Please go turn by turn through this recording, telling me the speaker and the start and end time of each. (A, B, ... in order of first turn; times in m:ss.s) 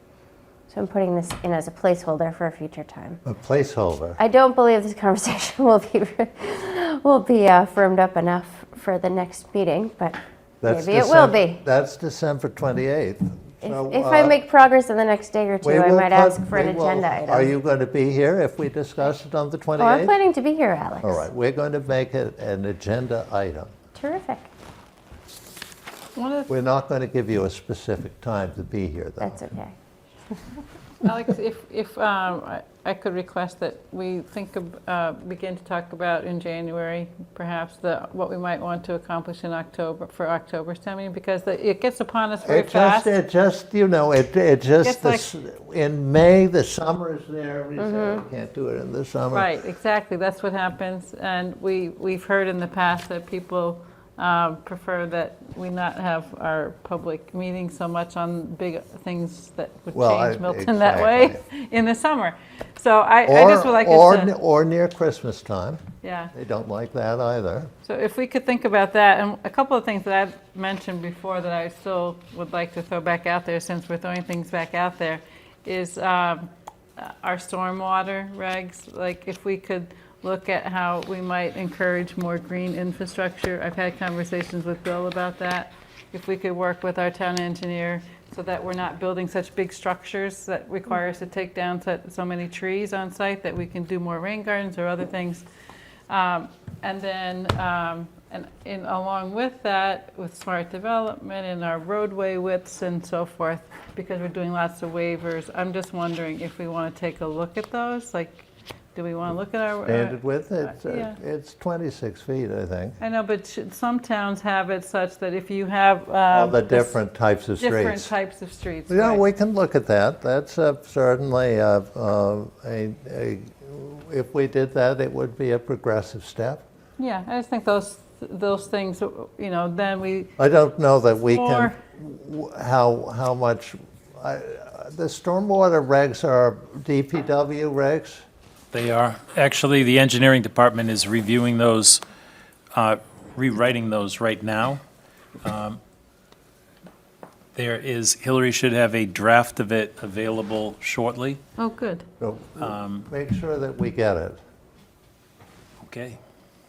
0:00.7-0:03.2 A
0:03.2-0:04.2 B
0:04.2-0:11.6 A
0:10.6-0:14.4 B
0:13.6-0:17.5 A
0:15.6-0:20.2 B
0:19.8-0:21.3 A
0:21.0-0:23.7 B
0:23.9-0:24.5 A
0:26.2-0:26.5 C
0:26.5-0:29.4 B
0:29.2-0:29.7 A
0:31.0-0:43.1 C
0:42.4-0:49.5 B
0:44.8-0:45.2 C
0:47.8-0:48.2 A
0:49.3-1:04.3 C
0:59.9-1:01.4 B
1:03.3-1:05.8 B
1:06.0-1:06.3 C
1:06.3-1:07.7 B
1:07.8-1:35.4 C
1:36.1-1:51.2 C
1:49.9-1:53.0 B
1:53.0-1:57.0 C
1:56.3-1:58.1 B
1:57.6-1:59.2 C
1:58.9-2:06.6 B
2:07.0-2:10.3 C
2:10.4-2:18.2 B
2:11.2-2:11.8 C
2:18.7-2:22.0 D
2:22.7-2:24.8 D
2:25.4-2:25.8 D
2:27.5-2:31.4 D
2:31.6-2:32.0 C
2:32.2-2:34.4 B
2:32.6-2:33.0 D
2:35.8-2:36.2 D